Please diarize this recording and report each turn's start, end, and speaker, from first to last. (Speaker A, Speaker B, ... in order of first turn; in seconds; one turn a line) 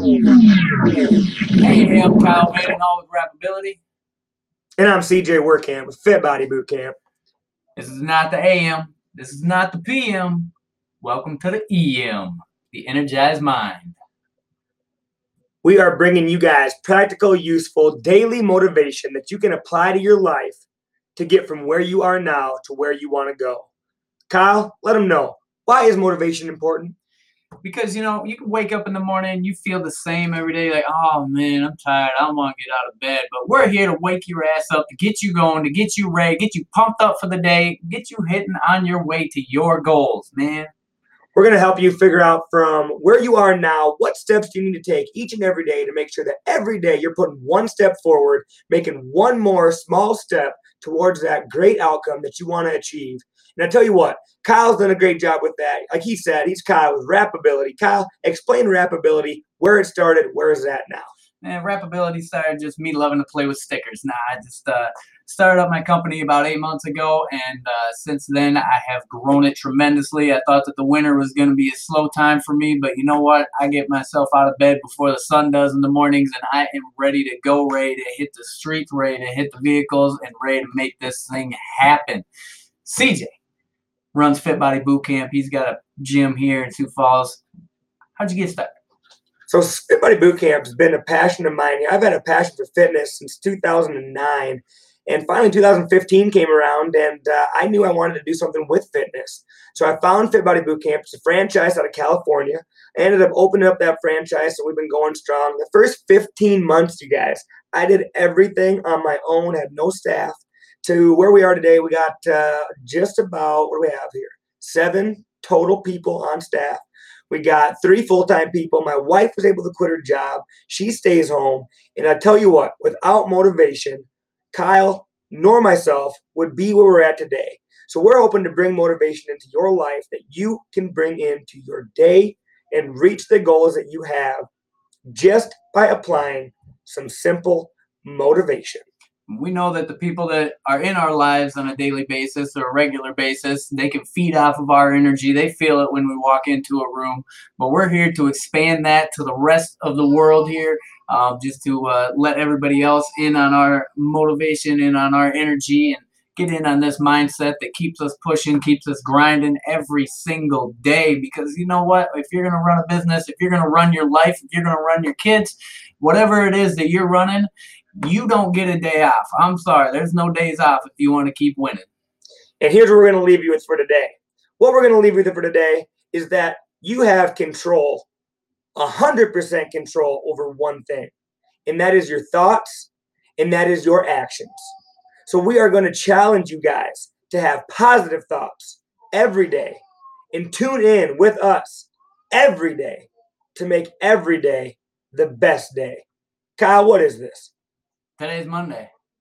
Speaker A: 1.6-3.8
Speaker B: 4.8-7.0
Speaker A: 7.8-14.0
Speaker B: 15.6-20.6
Speaker B: 21.2-23.7
Speaker B: 24.3-26.9
Speaker A: 27.6-40.7
Speaker B: 41.4-61.1
Speaker A: 61.4-82.2
Speaker A: 82.8-83.4
Speaker A: 84.1-87.4
Speaker A: 88.2-88.7
Speaker B: 89.5-134.5
Speaker B: 135.1-138.8
Speaker A: 139.3-171.9
Speaker B: 172.6-178.1
Speaker B: 178.8-181.1
Speaker B: 181.7-184.7
Speaker B: 185.3-196.0
Speaker B: 196.6-197.5
Speaker A: 198.2-198.9